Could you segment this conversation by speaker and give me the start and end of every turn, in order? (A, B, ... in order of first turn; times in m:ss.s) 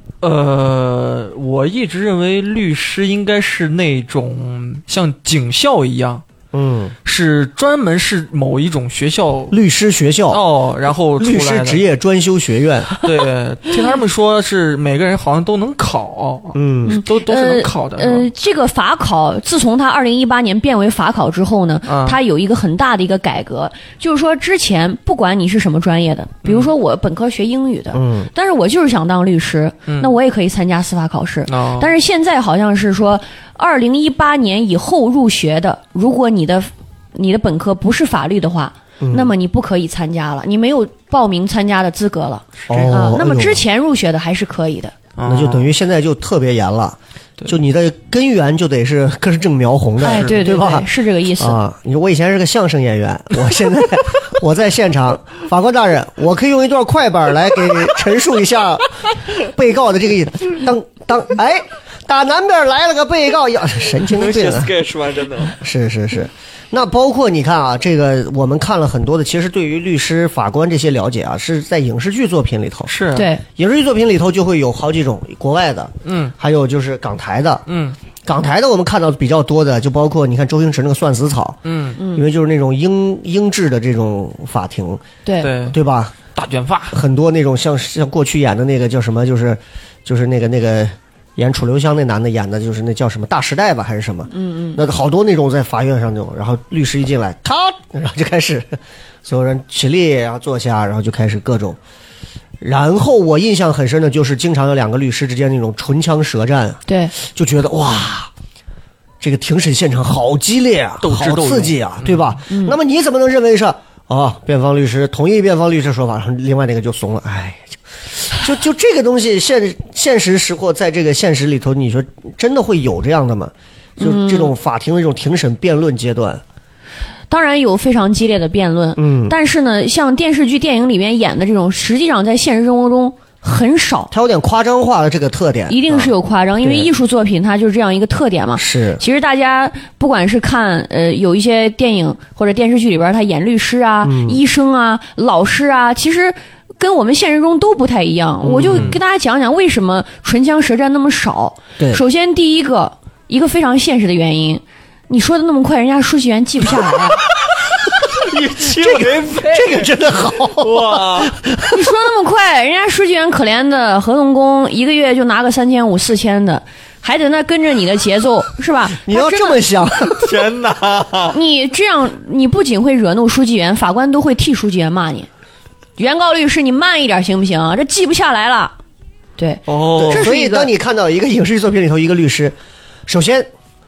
0:00.2-0:06.2 A
0:06.5-0:06.9 B
0:07.0-0:09.6 A
0:09.5-0:10.4 B
0:10.3-0:11.8 A
0:11.2-0:12.9 B
0:13.0-0:18.3 A
0:16.5-0:17.0 B
0:16.9-0:44.9 C
0:21.9-0:22.2 A
0:26.4-0:26.7 A
0:27.9-0:28.3 B
0:31.5-0:31.9 A
0:39.0-0:39.3 B
0:42.7-0:43.0 A
0:42.7-0:43.6 B
0:45.2-0:45.7 A
0:45.2-1:04.8 B
0:50.0-0:51.6 C
1:04.1-1:05.6 A
1:05.4-1:12.9 B
1:12.9-1:13.3 A
1:13.1-1:13.4 C
1:13.5-1:17.6 B
1:16.0-1:16.3 A
1:17.7-1:18.0 A
1:18.2-1:21.6 B
1:21.6-1:22.0 A
1:22.0-1:22.2 C
1:22.1-1:25.0 B
1:25.2-1:25.5 C
1:25.4-1:25.8 A
1:25.6-1:26.1 B
1:26.3-1:27.0 A
1:26.9-1:41.8 B
1:34.3-1:34.8 C
1:42.6-1:48.3 B
1:46.9-1:47.1 C
1:49.2-2:06.4 B
1:51.0-1:52.3 A
1:52.5-1:52.8 C
2:04.0-2:04.5 C
2:07.3-2:14.1 C
2:09.0-2:09.3 B
2:14.1-2:16.9 B
2:15.7-2:37.2 C
2:18.6-2:19.0 B
2:24.0-2:24.4 B
2:28.4-2:29.0 B
2:28.7-2:29.0 A
2:38.1-2:41.3 A
2:38.6-2:41.9 B
2:41.7-2:49.6 C
2:48.9-2:50.3 B
2:50.2-2:51.4 A
2:51.3-2:55.3 C
2:56.0-2:58.7 C
2:59.4-3:00.7 C
2:59.7-3:00.3 A
3:00.0-3:02.6 B
3:03.1-3:03.5 B